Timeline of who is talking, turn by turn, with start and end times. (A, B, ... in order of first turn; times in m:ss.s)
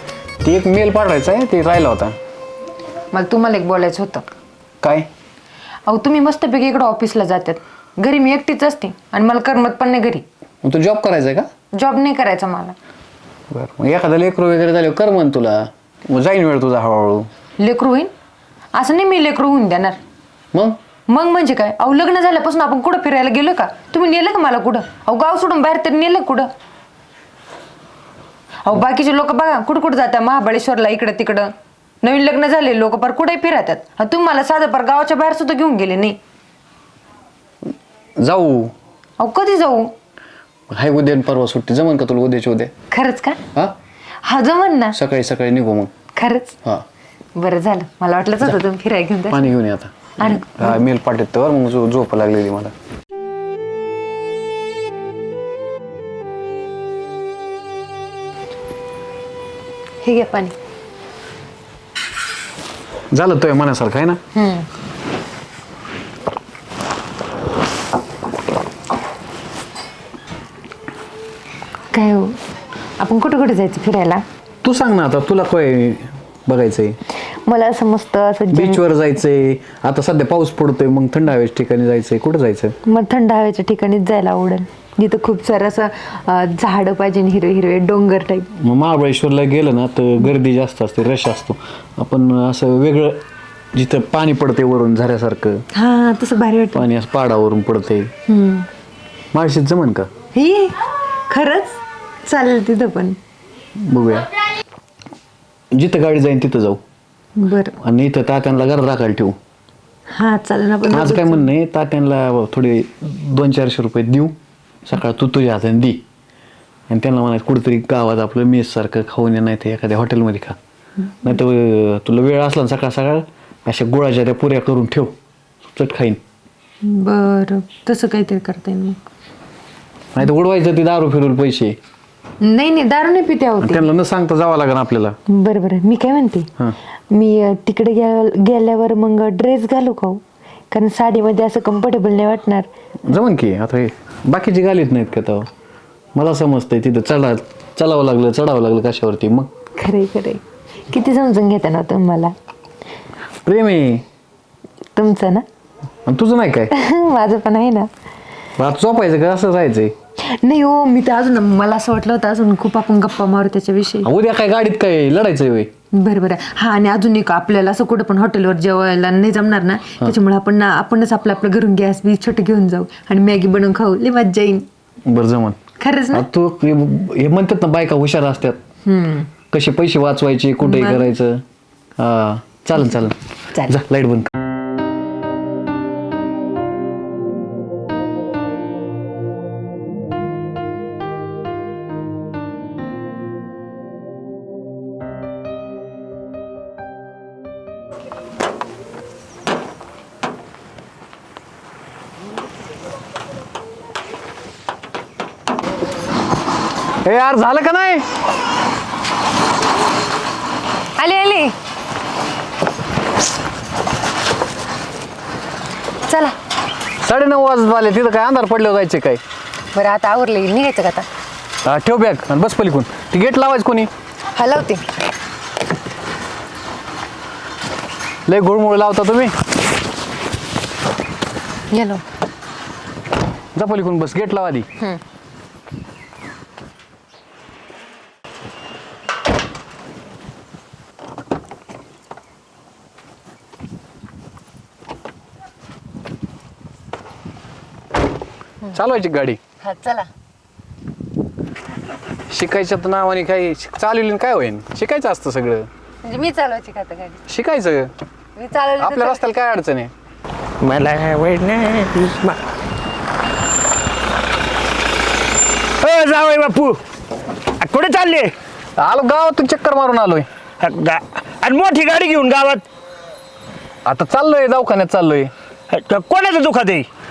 0:00.4-0:02.1 A
0:03.1-0:04.2 B
0:04.8-0:05.1 A
0:05.9-0:10.2 B
0:10.6-0:11.5 A
0:11.7-0:12.7 B
0:13.5-0:17.3 A
0:17.6-0:18.1 B
0:18.8-0:20.0 B
0:21.1-0:26.5 B
0:28.6-0:31.5 B
0:32.0-0:36.2 B
0:38.2-0:38.7 A
0:39.2-0:39.9 B
0:40.7-0:42.7 A
0:42.9-0:43.4 B
0:44.2-0:45.0 B
0:44.9-0:45.9 A
0:46.2-0:46.6 B
0:47.4-0:49.5 B
0:49.3-0:52.7 A
0:50.2-0:50.8 B
1:00.0-1:00.5 B
1:03.1-1:04.2 A
1:04.3-1:04.7 B
1:11.9-1:12.4 B
1:13.0-1:14.2 B
1:14.6-1:17.0 A
1:17.4-1:18.8 B
1:18.5-1:22.8 A
1:22.8-1:28.5 B
1:28.6-1:33.2 A
1:33.7-1:35.6 A
1:35.7-1:36.9 B
1:36.7-1:38.1 A
1:38.3-1:38.7 B
1:39.3-1:40.1 A
1:40.3-1:43.2 B
1:43.8-1:44.3 A
1:45.7-1:46.8 A
1:47.4-1:47.8 B
1:47.8-1:49.4 A
1:50.1-1:51.5 B
1:50.9-1:56.0 A
1:56.9-2:00.6 A
2:01.2-2:05.1 A
2:05.7-2:06.2 A
2:06.8-2:09.0 B
2:10.1-2:11.8 A
2:12.4-2:13.9 B
2:13.6-2:15.2 A
2:15.3-2:16.5 B
2:17.1-2:22.7 B
2:23.0-2:25.5 A
2:26.2-2:29.5 A
2:29.8-2:32.3 B
2:33.4-2:34.0 A
2:35.0-2:35.4 B
2:36.0-2:36.7 A
2:36.7-2:37.9 B
2:38.6-2:39.9 A
2:40.3-2:44.1 B
2:44.0-2:45.7 A
2:45.9-2:54.6 B
2:55.0-2:55.6 A
2:55.8-2:56.3 B
2:56.1-2:58.6 A
2:58.8-2:59.3 B
2:59.5-3:01.4 A
3:00.6-3:01.1 B
3:02.0-3:04.3 A
3:27.0-3:28.0 A
3:31.0-3:31.5 B
3:36.1-3:36.3 B
3:37.0-3:39.2 A
3:39.7-3:41.1 B
3:41.6-3:43.9 A
3:44.3-3:44.9 B
3:48.3-3:49.4 A
3:51.7-3:52.0 B
3:53.5-3:54.7 A
4:08.7-4:09.4 A
4:09.6-4:10.1 B
4:12.3-4:15.7 A
4:16.0-4:17.2 B
4:17.3-4:17.9 A
4:18.4-4:19.2 B
4:18.8-4:19.9 A
4:20.6-4:22.4 C
4:25.8-4:26.8 C
4:27.6-4:28.3 C
4:28.8-4:30.3 A
4:30.6-4:32.6 C
4:33.8-4:35.3 A
4:35.7-4:36.9 C